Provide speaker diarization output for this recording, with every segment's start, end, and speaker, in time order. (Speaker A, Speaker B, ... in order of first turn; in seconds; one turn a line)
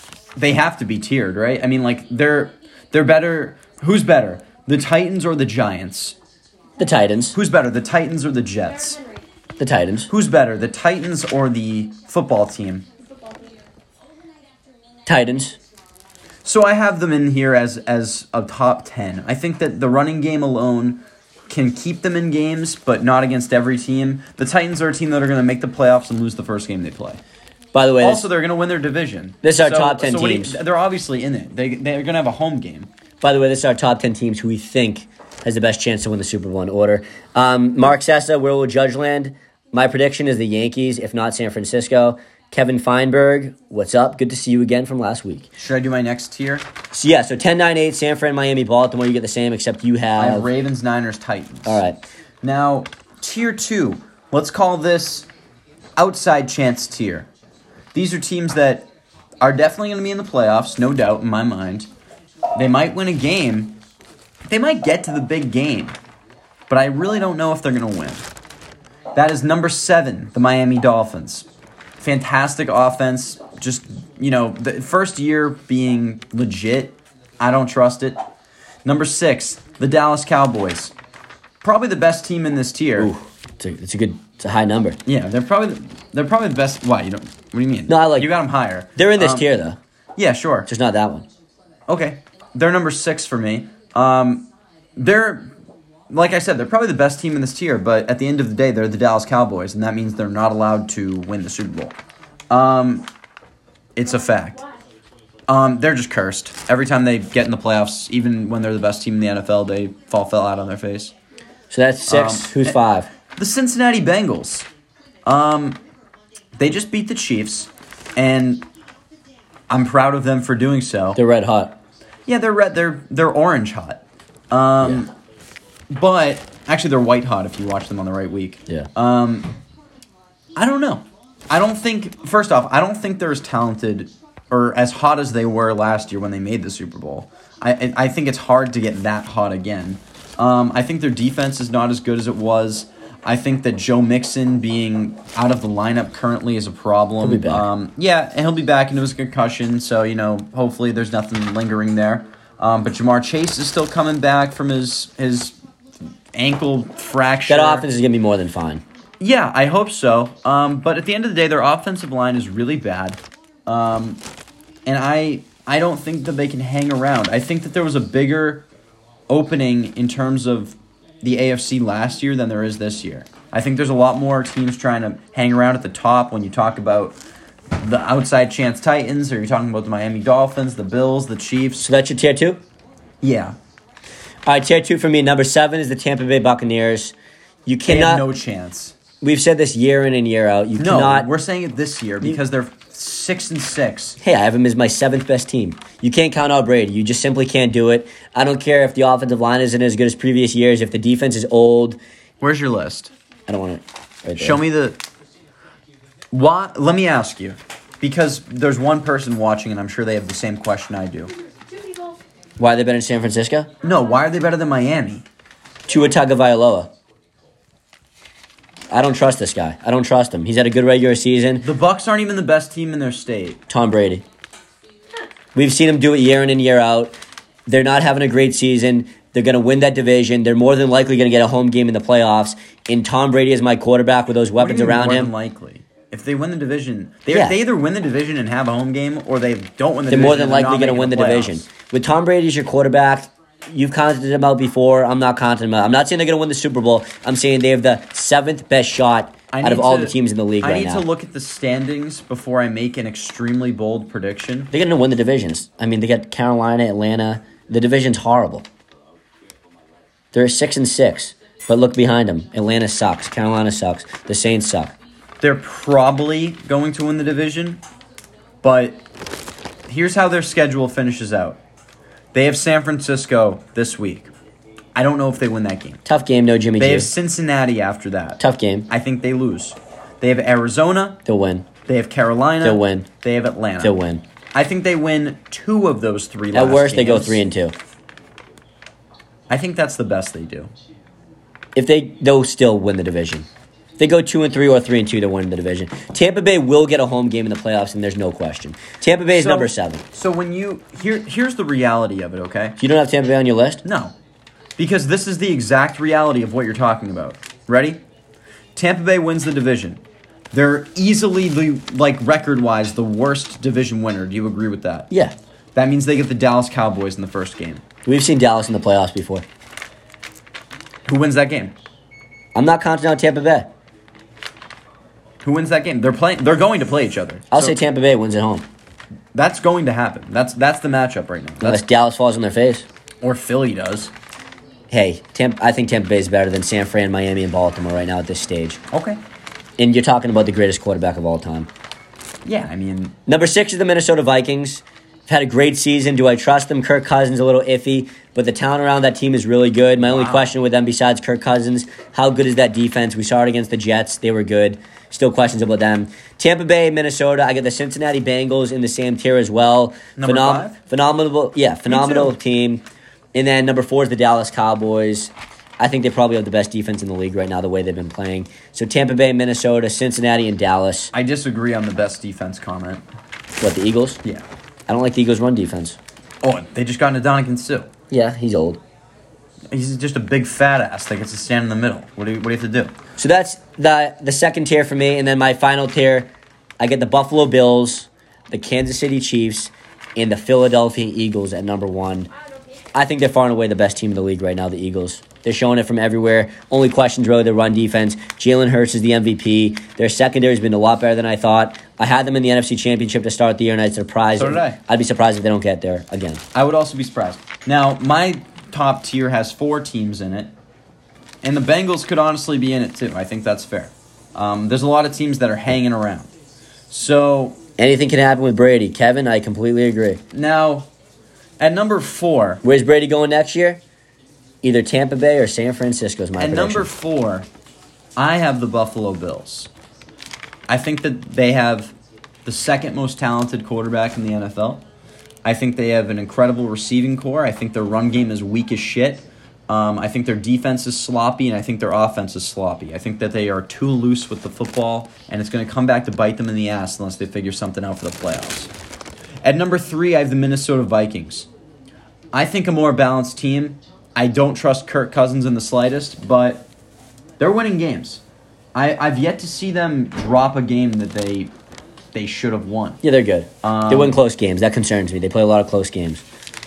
Speaker A: 0.3-6.2
Speaker B: 6.8-7.4
Speaker A: 7.3-9.0
Speaker C: 8.7-9.3
Speaker B: 9.6-10.1
Speaker A: 10.1-12.9
Speaker C: 13.0-13.6
Speaker B: 15.1-15.6
Speaker A: 16.4-27.2
Speaker B: 27.7-28.3
Speaker A: 28.0-32.9
Speaker B: 29.4-30.6
Speaker B: 33.2-45.5
Speaker A: 45.6-46.7
Speaker B: 46.9-50.5
Speaker A: 50.2-51.8
Speaker B: 51.6-52.0
Speaker A: 52.4-55.3
Speaker A: 56.0-57.3
Speaker A: 57.9-58.9
Speaker A: 59.4-61.9
Speaker A: 62.5-63.8
Speaker A: 64.4-66.0
Speaker A: 66.7-68.3
Speaker A: 69.1-71.5
Speaker A: 72.0-78.2
Speaker A: 78.8-80.9
Speaker A: 81.6-83.1
Speaker B: 83.0-85.0
Speaker A: 85.0-89.5
Speaker B: 87.9-88.3
Speaker B: 89.0-89.8
Speaker A: 90.2-90.7
Speaker B: 90.7-91.3
Speaker A: 91.9-95.5
Speaker A: 96.1-102.0
Speaker A: 102.5-103.1
Speaker A: 103.9-104.6
Speaker C: 104.1-104.8
Speaker A: 105.5-111.1
Speaker B: 111.7-113.1
Speaker A: 112.1-112.8
Speaker A: 113.3-114.7
Speaker A: 115.2-115.8
Speaker A: 116.6-118.7
Speaker A: 119.7-121.2
Speaker B: 121.2-121.8
Speaker A: 122.2-125.1
Speaker A: 125.9-129.5
Speaker A: 130.6-155.6
Speaker B: 147.2-147.7
Speaker A: 156.3-157.9
Speaker B: 157.5-158.8
Speaker A: 159.2-164.2
Speaker A: 164.8-168.7
Speaker A: 169.3-177.2
Speaker A: 177.7-181.9
Speaker B: 181.8-182.6
Speaker A: 183.2-183.6
Speaker B: 184.4-187.1
Speaker B: 187.7-188.2
Speaker A: 187.8-188.9
Speaker B: 189.2-191.3
Speaker A: 190.8-194.2
Speaker B: 194.2-202.0
Speaker A: 202.4-203.1
Speaker B: 203.5-204.6
Speaker A: 204.3-205.0
Speaker A: 206.3-211.3
Speaker C: 211.5-212.2
Speaker B: 212.6-213.7
Speaker A: 213.8-215.2
Speaker B: 215.9-216.9
Speaker B: 218.9-221.7
Speaker A: 221.6-223.6
Speaker B: 223.7-224.2
Speaker B: 225.5-235.3
Speaker A: 234.6-241.6
Speaker B: 237.3-237.6
Speaker B: 240.1-251.0
Speaker A: 249.5-254.7
Speaker B: 254.7-258.6
Speaker B: 260.3-264.9
Speaker A: 265.4-267.8
Speaker A: 268.6-269.0
Speaker A: 269.9-271.6
Speaker A: 272.3-274.3
Speaker A: 274.9-276.0
Speaker B: 276.0-277.1
Speaker A: 276.8-281.2
Speaker B: 278.4-278.9
Speaker B: 281.2-281.7
Speaker A: 281.9-284.0
Speaker B: 282.6-283.1
Speaker B: 283.8-284.2
Speaker A: 284.5-287.4
Speaker B: 286.5-287.7
Speaker A: 289.5-290.7
Speaker B: 291.7-293.5
Speaker B: 294.0-300.0
Speaker A: 299.3-302.8
Speaker B: 302.8-303.8
Speaker A: 303.8-304.1
Speaker A: 304.8-308.0
Speaker A: 308.8-315.1
Speaker B: 315.1-315.3
Speaker A: 315.7-317.8
Speaker B: 318.0-319.4
Speaker A: 321.1-321.7
Speaker B: 322.5-323.7
Speaker A: 325.4-327.8
Speaker B: 327.5-328.7
Speaker A: 329.3-331.8
Speaker B: 331.6-332.9
Speaker A: 333.2-334.1
Speaker B: 334.9-338.8
Speaker A: 338.9-339.2
Speaker B: 339.8-341.7
Speaker A: 342.4-343.2
Speaker B: 343.2-371.1
Speaker A: 350.0-350.5
Speaker A: 360.2-360.8
Speaker A: 361.9-362.3
Speaker A: 371.1-373.0
Speaker B: 373.6-374.2
Speaker B: 374.9-376.0
Speaker A: 376.4-377.9
Speaker B: 378.1-378.8
Speaker A: 379.7-382.9
Speaker B: 383.2-392.3
Speaker C: 392.3-392.9
Speaker B: 392.9-406.4
Speaker A: 404.3-404.8
Speaker A: 406.5-410.5
Speaker A: 411.4-416.3
Speaker A: 416.9-417.6
Speaker B: 417.8-420.2
Speaker A: 420.3-420.9
Speaker A: 421.6-422.6
Speaker B: 422.6-423.8
Speaker B: 424.6-426.9
Speaker A: 426.4-427.5
Speaker A: 428.2-429.7
Speaker A: 430.7-431.9
Speaker A: 432.4-434.8
Speaker A: 435.4-448.7
Speaker A: 449.4-451.5
Speaker A: 452.3-456.7
Speaker A: 457.4-458.2
Speaker A: 458.7-461.5
Speaker A: 462.1-463.0
Speaker B: 463.0-466.2
Speaker A: 463.6-464.2